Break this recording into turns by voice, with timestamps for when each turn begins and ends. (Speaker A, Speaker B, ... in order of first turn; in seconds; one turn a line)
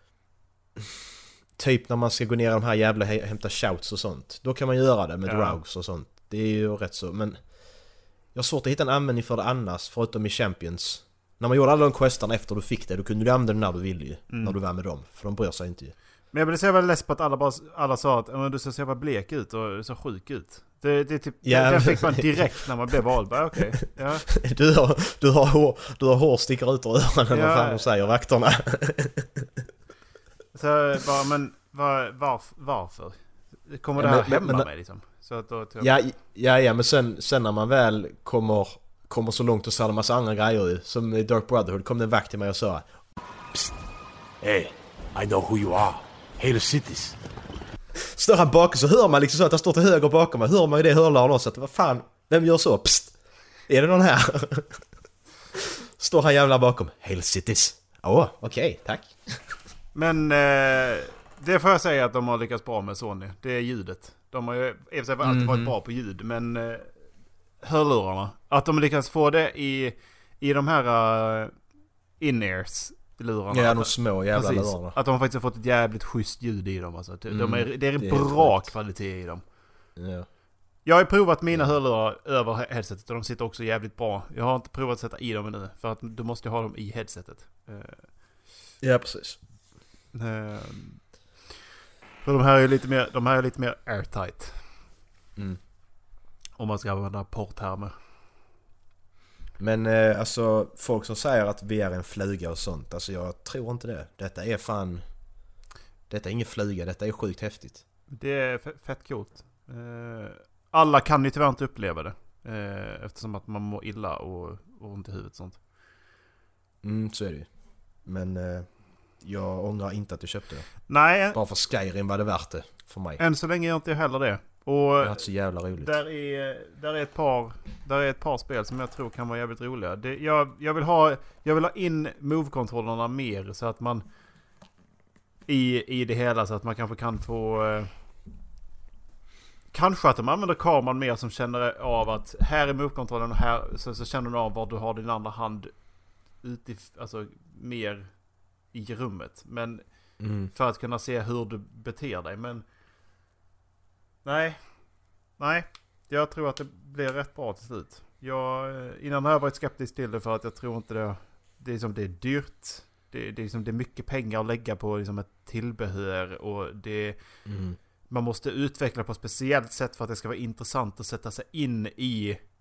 Speaker A: 1.6-15.9
Speaker B: 5.2-5.6
Speaker B: 14.3-14.6
Speaker B: 16.3-24.3
Speaker A: 21.4-22.7
Speaker A: 24.4-29.4
Speaker B: 27.3-27.9
Speaker B: 30.5-35.9
Speaker A: 34.0-34.7
Speaker A: 35.8-42.9
Speaker C: 44.4-47.2
Speaker A: 48.0-54.8
Speaker A: 55.5-59.4
Speaker B: 59.9-66.9
Speaker A: 65.2-65.7
Speaker B: 67.6-71.5
Speaker B: 72.2-79.4
Speaker A: 73.5-75.0
Speaker A: 77.3-78.8
Speaker A: 80.0-80.3
Speaker B: 80.8-88.1
Speaker A: 88.8-89.4
Speaker B: 90.1-91.0
Speaker B: 92.2-94.6
Speaker B: 96.6-97.9
Speaker A: 99.6-105.0
Speaker A: 106.1-107.8
Speaker B: 108.1-115.6
Speaker A: 116.8-123.2
Speaker B: 120.9-121.4
Speaker B: 123.2-125.2
Speaker A: 125.0-125.9
Speaker B: 125.7-134.0
Speaker B: 135.5-137.9
Speaker B: 139.7-152.6
Speaker A: 150.2-150.5
Speaker B: 154.2-154.8
Speaker B: 155.4-167.2
Speaker A: 167.4-167.8
Speaker B: 168.1-172.4